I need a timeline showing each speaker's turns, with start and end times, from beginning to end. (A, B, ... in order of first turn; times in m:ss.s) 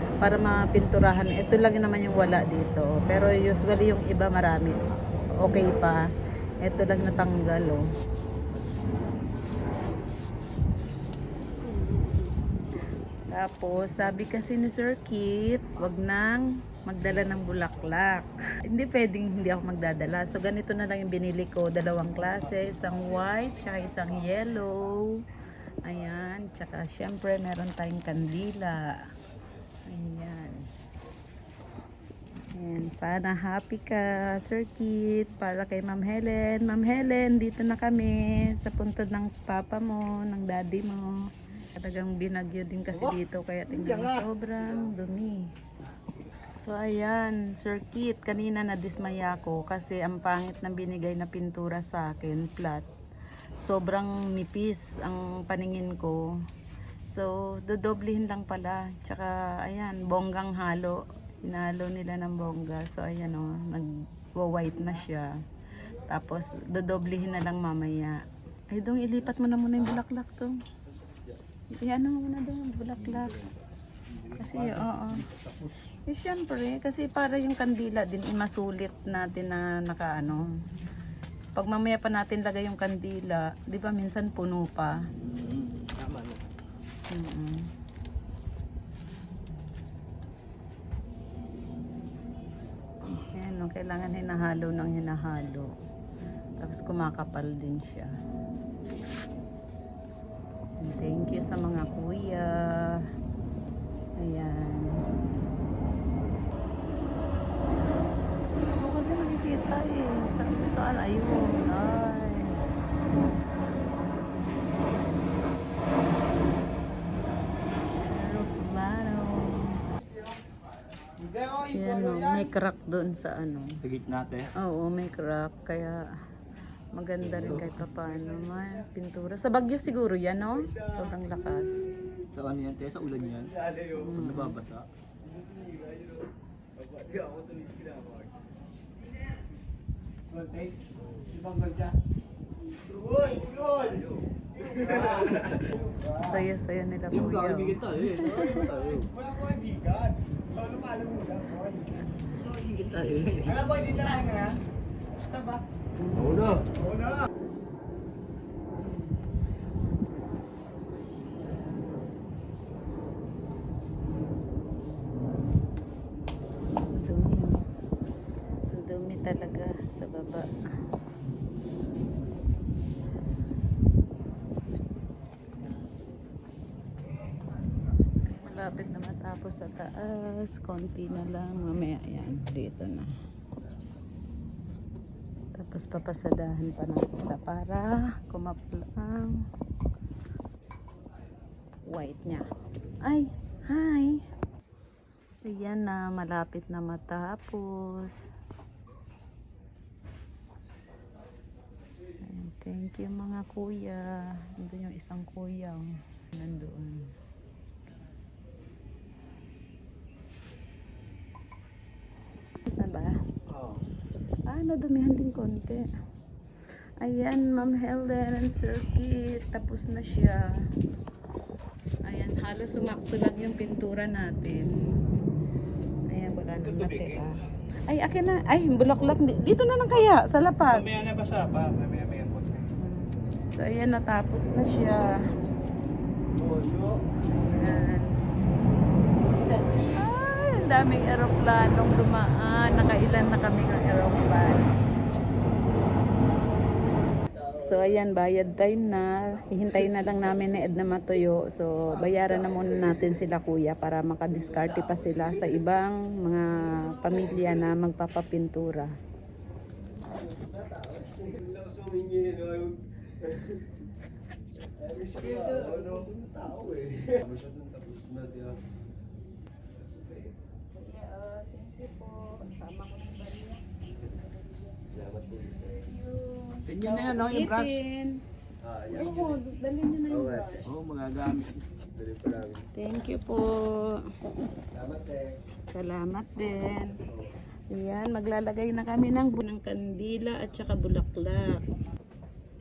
0:00.2-0:04.8 A
0:05.4-0:06.1 A
0:06.6-0:07.9 A
0:13.3-0:25.2 A
0:25.8-0:28.9 A
0:29.9-0:30.7 A
0:32.5-0:41.1 A
0:41.8-0:45.5 A
0:43.7-0:44.2 B
0:46.6-0:52.9 A
0:53.6-0:56.3 A
0:57.1-1:05.4 A
1:06.1-1:10.6 A
1:11.0-1:11.3 C
1:11.8-1:13.4 A
1:14.1-1:15.8 B
1:14.4-1:15.2 A
1:16.1-1:20.4 A
1:21.5-1:25.0 A
1:25.2-1:26.5 B
1:27.1-1:27.7 A
1:33.0-1:35.7 A
1:36.6-1:38.1 A
1:40.8-1:43.0 A
1:44.2-1:45.0 A
1:48.7-1:52.6 A
1:58.0-1:59.8 A
2:01.2-2:02.5 D
2:01.7-2:03.8 A
2:03.8-2:04.5 B
2:04.6-2:06.1 A
2:06.9-2:11.9 A
2:07.3-2:07.7 B
2:12.3-2:14.8 B
2:13.6-2:13.9 C
2:13.9-2:14.6 A
2:15.2-2:18.4 C
2:20.3-2:20.8 D
2:21.3-2:21.9 D
2:22.9-2:24.1 C
2:23.7-2:24.2 B
2:24.6-2:26.4 D
2:24.8-2:25.6 B
2:26.2-2:28.4 A
2:27.1-2:29.1 B
2:28.2-2:32.0 D
2:28.5-2:28.8 C
2:32.3-2:33.7 B
2:33.4-2:34.6 D
2:35.2-2:35.6 D
2:36.1-2:36.7 C
2:36.8-2:37.2 D
2:46.9-2:47.6 A
2:48.7-2:50.5 A
2:58.3-3:03.1 A
3:05.5-3:09.4 A
3:11.9-3:12.5 A
3:13.0-3:14.2 A
3:15.4-3:18.3 A
3:22.2-3:27.1 A
3:32.6-3:33.2 A
3:33.5-3:33.8 B
3:34.5-3:35.9 A
3:37.0-3:40.6 A
3:42.0-3:44.8 A
3:46.1-3:50.9 A
3:46.6-3:47.3 B
3:50.7-3:52.7 D
3:52.8-3:55.2 A
3:56.4-3:57.0 D
3:57.3-3:58.1 A
3:59.1-3:59.5 D
3:59.9-4:04.8 A
4:05.4-4:05.8 C
4:07.6-4:18.9 A
4:12.2-4:13.1 C
4:14.3-4:15.6 C
4:17.1-4:17.4 C
4:20.1-4:23.7 C
4:24.7-4:28.6 C
4:25.3-4:26.2 B
4:30.7-4:33.6 A
4:34.9-4:35.9 C
4:35.7-4:38.2 A
4:36.7-4:37.7 B
4:38.6-4:39.4 C
4:38.9-4:40.6 A
4:40.1-4:40.7 C
4:40.6-4:41.6 B
4:41.9-4:42.7 C
4:42.7-4:44.0 A
4:44.7-4:45.4 C
4:45.7-4:47.0 A
4:47.7-4:51.6 A